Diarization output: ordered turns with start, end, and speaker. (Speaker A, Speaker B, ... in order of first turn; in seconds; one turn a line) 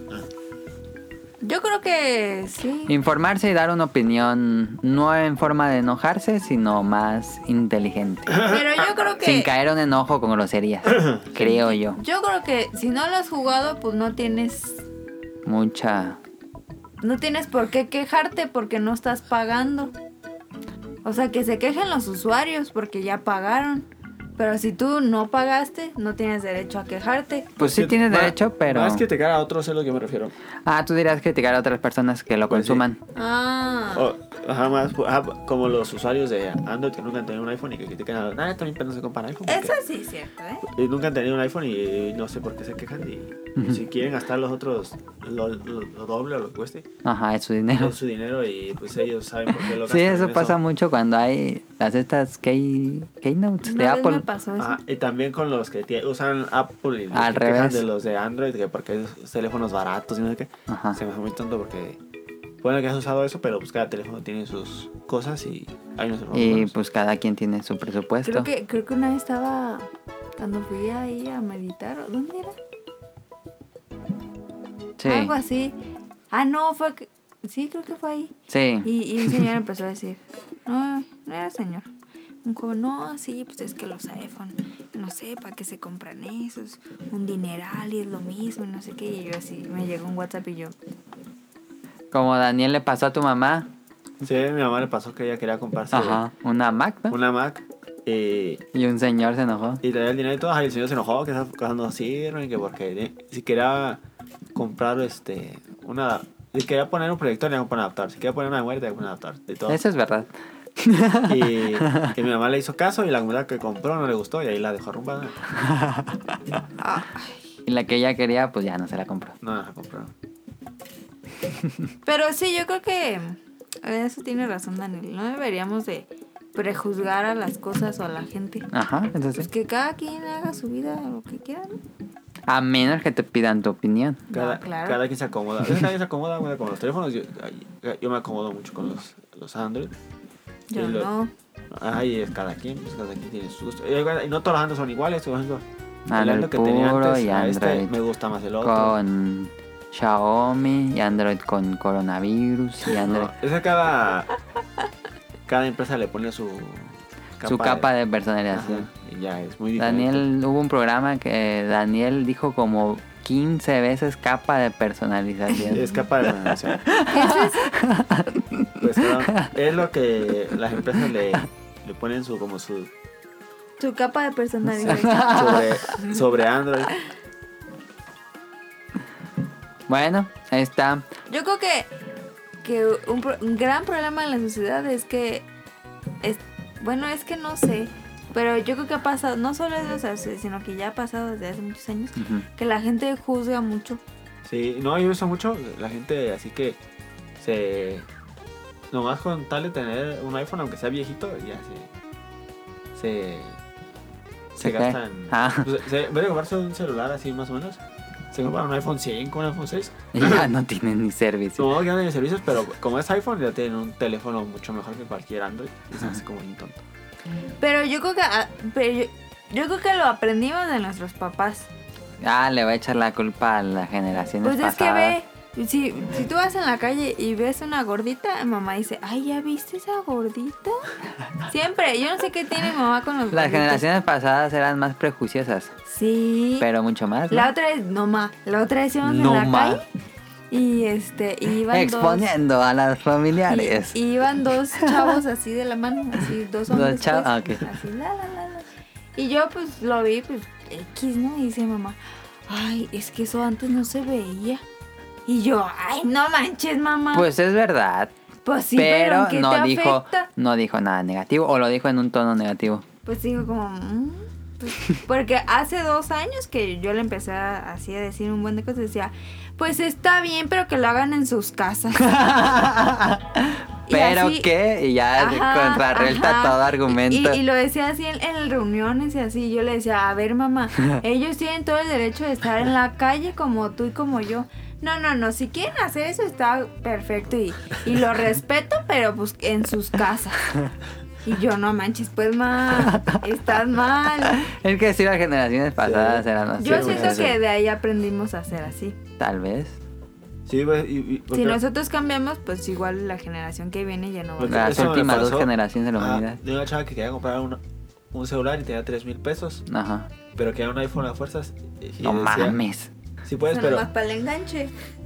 Speaker A: 1.4-3.0
Speaker B: 2.9-8.6
Speaker C: 8.4-8.6
Speaker A: 8.4-9.5
Speaker B: 9.2-12.0
Speaker C: 10.9-11.2
Speaker A: 11.4-14.8
Speaker B: 15.5-16.2
Speaker A: 17.0-19.9
Speaker A: 21.1-27.6
Speaker B: 27.6-29.1
Speaker C: 27.6-30.3
Speaker B: 30.7-33.0
Speaker C: 32.5-32.8
Speaker A: 33.1-34.1
Speaker C: 33.9-39.7
Speaker A: 39.5-40.7
Speaker C: 40.6-46.9
Speaker B: 47.0-48.0
Speaker C: 47.8-50.6
Speaker B: 49.8-54.2
Speaker A: 53.6-54.8
Speaker C: 54.6-62.0
Speaker B: 57.1-57.8
Speaker B: 60.7-61.0
Speaker C: 62.6-66.8
Speaker B: 66.3-68.5
Speaker A: 68.3-72.6
Speaker B: 75.0-75.3
Speaker A: 75.0-75.8
Speaker A: 76.3-78.3
Speaker B: 78.5-79.5
Speaker A: 78.8-81.9
Speaker A: 82.4-90.8
Speaker B: 92.1-93.7
Speaker C: 94.2-96.2
Speaker B: 95.9-97.2
Speaker C: 97.1-98.6
Speaker B: 98.7-99.8
Speaker C: 99.8-104.0
Speaker C: 104.5-109.8
Speaker B: 109.7-112.1
Speaker C: 111.3-115.4
Speaker B: 115.7-116.2
Speaker A: 116.8-117.5
Speaker B: 117.7-119.4
Speaker C: 119.4-120.1
Speaker A: 122.0-128.7
Speaker B: 128.7-129.5
Speaker A: 129.3-131.8
Speaker B: 132.5-134.2
Speaker A: 134.3-135.0
Speaker C: 134.3-139.9
Speaker A: 140.7-141.3
Speaker C: 140.8-141.1
Speaker C: 141.7-149.0
Speaker B: 146.1-147.9
Speaker B: 148.6-153.3
Speaker C: 152.9-154.3
Speaker C: 155.5-157.9
Speaker B: 157.4-158.9
Speaker C: 158.5-160.3
Speaker B: 159.8-165.9
Speaker C: 165.7-166.8
Speaker B: 166.9-168.7
Speaker A: 167.1-167.7
Speaker C: 168.8-172.9
Speaker A: 173.8-176.3
Speaker C: 174.8-176.9
Speaker B: 174.8-175.7
Speaker B: 179.9-181.1
Speaker A: 181.3-181.9
Speaker A: 182.6-185.5
Speaker A: 186.2-194.0
Speaker B: 192.2-192.5
Speaker C: 194.4-196.8
Speaker C: 197.4-198.1
Speaker C: 198.9-201.9
Speaker C: 202.9-203.6
Speaker C: 204.5-210.5
Speaker B: 204.6-205.7
Speaker B: 210.1-211.8
Speaker C: 211.6-216.8
Speaker A: 217.6-221.7
Speaker B: 222.2-225.2
Speaker A: 224.4-230.9
Speaker A: 231.4-233.8
Speaker B: 233.3-235.7
Speaker A: 235.9-236.7
Speaker B: 236.6-237.5
Speaker A: 237.3-239.8
Speaker B: 239.0-239.8
Speaker A: 240.5-242.3
Speaker B: 241.7-244.0
Speaker A: 243.5-254.6
Speaker B: 246.7-247.7
Speaker A: 255.3-257.3
Speaker B: 257.1-258.1
Speaker A: 258.4-260.3
Speaker B: 258.8-262.8
Speaker A: 263.1-272.2
Speaker B: 272.0-277.4
Speaker A: 273.9-274.5
Speaker A: 275.2-290.6
Speaker A: 291.2-294.4
Speaker B: 292.8-293.2
Speaker B: 294.4-297.4
Speaker C: 295.8-297.3
Speaker A: 296.6-299.0
Speaker B: 299.2-299.8
Speaker C: 300.5-301.6
Speaker A: 301.3-304.9
Speaker C: 304.4-307.6
Speaker B: 304.5-306.4
Speaker C: 308.1-309.6
Speaker B: 309.7-310.1
Speaker C: 310.4-312.6
Speaker B: 312.0-312.9
Speaker C: 313.2-313.9
Speaker A: 313.5-314.7